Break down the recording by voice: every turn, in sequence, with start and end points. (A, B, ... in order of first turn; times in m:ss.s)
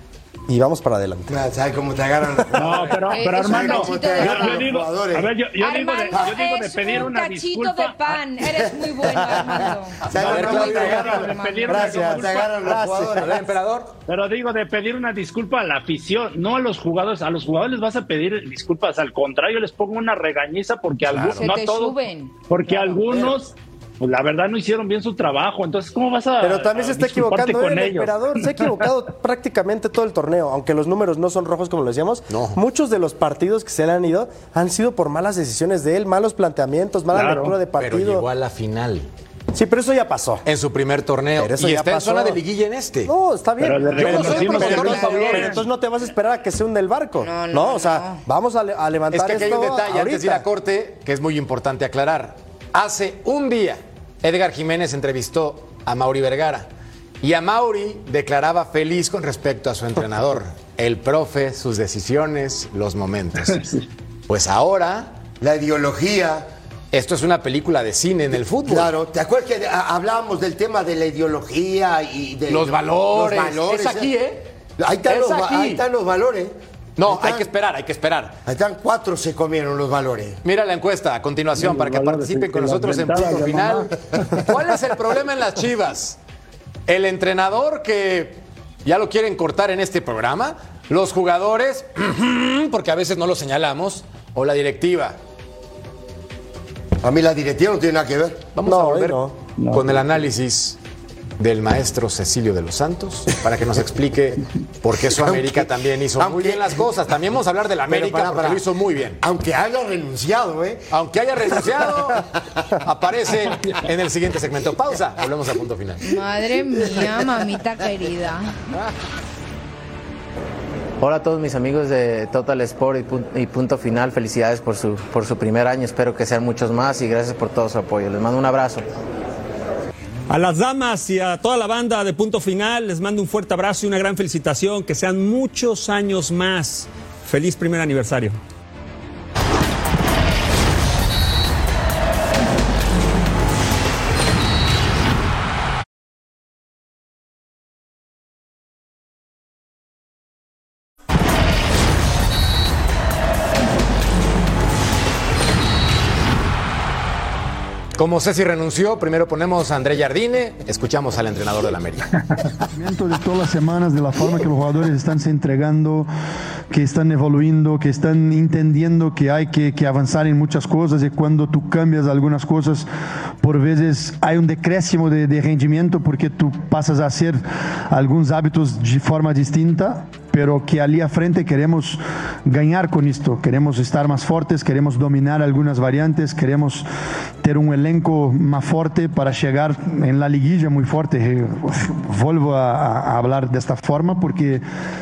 0:00.5-0:01.3 A
0:01.3-0:05.3 B
0:02.5-0:08.0 C
0:03.1-0:04.6 D
0:05.6-0:12.1 D
0:10.1-0:11.3 B
0:10.1-0:11.1 E
0:10.1-0:12.5 C
0:11.7-0:13.4 A
0:12.0-0:13.4 B
0:13.2-0:13.9 E
0:14.1-0:22.0 C
0:21.3-0:22.3 D
0:22.5-0:28.7 C
0:26.4-0:38.2 A
0:32.3-0:32.6 E
0:37.1-0:37.5 C
0:37.8-0:39.1 E
0:39.5-0:40.4 A
0:40.4-0:43.1 E
0:41.4-0:42.4 A
0:43.0-0:50.4 A
0:43.6-0:45.6 C
0:43.9-0:45.6 E
0:47.2-0:48.2 D
0:49.1-0:56.7 E
0:57.2-1:03.6 E
1:03.5-1:03.8 C
1:04.3-1:05.1 E
1:05.4-1:06.4 B
1:06.9-1:08.9 E
1:08.7-1:14.1 B
1:12.5-1:14.5 E
1:14.8-1:16.5 B
1:15.0-1:15.8 E
1:17.0-1:18.4 E
1:17.1-1:17.5 B
1:18.4-1:20.4 B
1:20.4-1:26.2 E
1:21.6-1:24.4 C
1:26.9-1:35.2 E
1:37.0-1:38.4 B
1:38.5-1:40.8 E
1:38.6-1:39.3 A
1:39.6-1:40.0 C
1:41.4-1:49.2 E
1:45.0-1:46.9 B
1:47.9-1:48.6 B
1:49.2-1:50.8 B
1:50.9-1:52.2 E
1:51.5-1:52.2 B
1:52.8-1:56.0 E
1:56.0-1:58.5 D
2:01.0-2:08.8 F
2:10.3-2:18.4 G
2:38.0-2:42.2 E
2:42.7-2:46.1 H
2:46.7-2:52.9 H
2:53.4-3:06.8 H
3:07.4-3:14.6 H